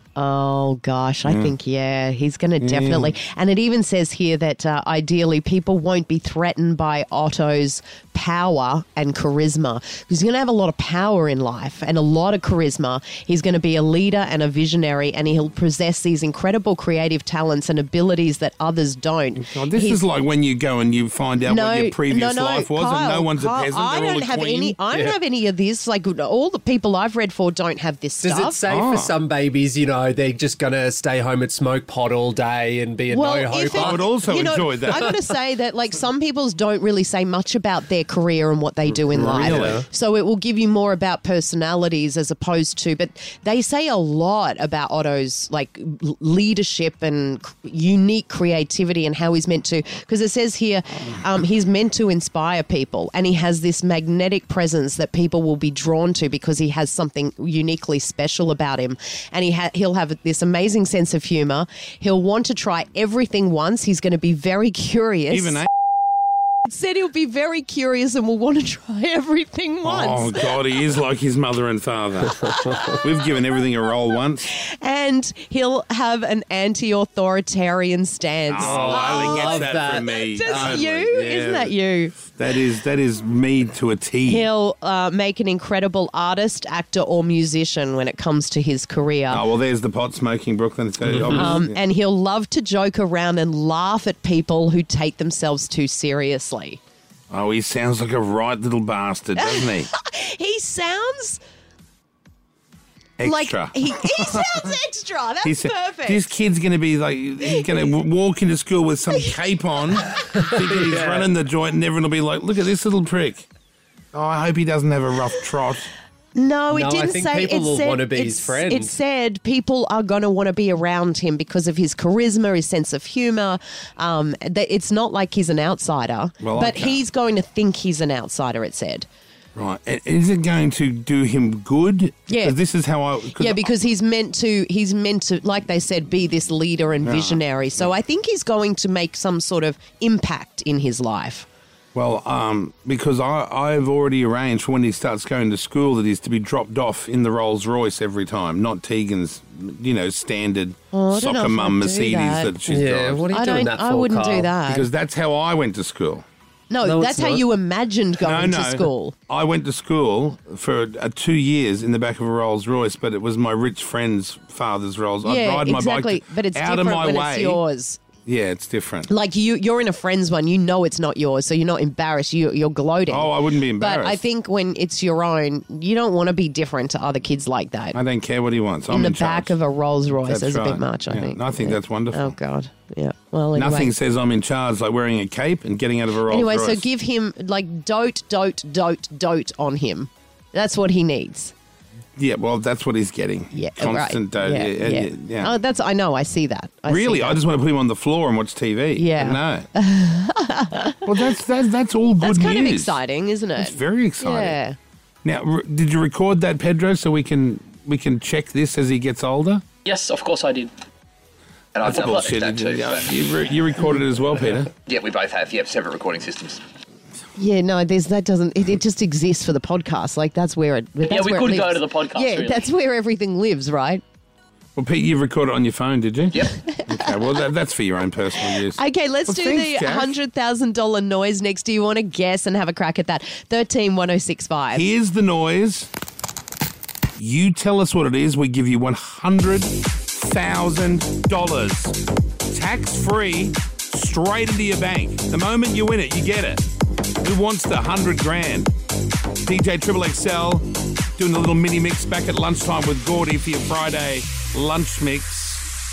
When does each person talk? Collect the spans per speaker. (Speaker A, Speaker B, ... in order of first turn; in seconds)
Speaker A: 0.1-20.0, 21.4-28.6, 33.1-65.7, 66.6-70.5, 72.5-73.0, 74.5-82.3, 84.2-89.4, 91.3-96.8, 99.3-101.4, 103.2-106.3, 107.4-107.8, 116.3-129.1, 132.3-132.6, 133.3-141.5, 150.9-152.6, 153.3-154.9, 156.7-159.1, 165.2-168.0, 169.1-178.0, 178.9-183.9, 186.2-191.5, 193.5-197.4, 198.9-201.3, 202.2-204.8, 217.3-224.0, 226.5-227.5, 228.4-234.9
Speaker B: 1.2-1.5, 2.6-3.1, 19.4-24.8, 28.7-29.1, 33.7-35.2, 38.9-39.8, 65.3-65.7, 69.8-74.5, 78.5-81.7, 82.3-84.5, 89.3-91.8, 97.3-99.9, 103.2-104.8, 105.4-113.4, 114.1-115.9, 126.4-127.0, 129.6-133.7, 137.0-137.9, 141.9-153.3, 154.6-156.2, 158.2-167.6, 168.2-169.1, 173.1-174.2, 177.9-179.5, 180.2-182.3, 183.6-186.8, 192.2-195.5, 196.9-199.7, 201.0-203.0, 203.6-204.6, 205.2-209.6, 211.8-214.7, 224.8-230.1, 234.7-235.9, 237.2-242.0, 242.5-246.6, 247.2-248.7, 249.4-255.7
Speaker C: 24.9-25.2, 28.2-34.1, 39.3-39.8, 78.5-80.8, 110.3-111.3, 116.7-119.0, 152.7-154.5, 156.8-157.4
Speaker D: 209.8-210.7, 211.7-213.1, 214.9-216.6, 221.0-222.7, 226.3-226.6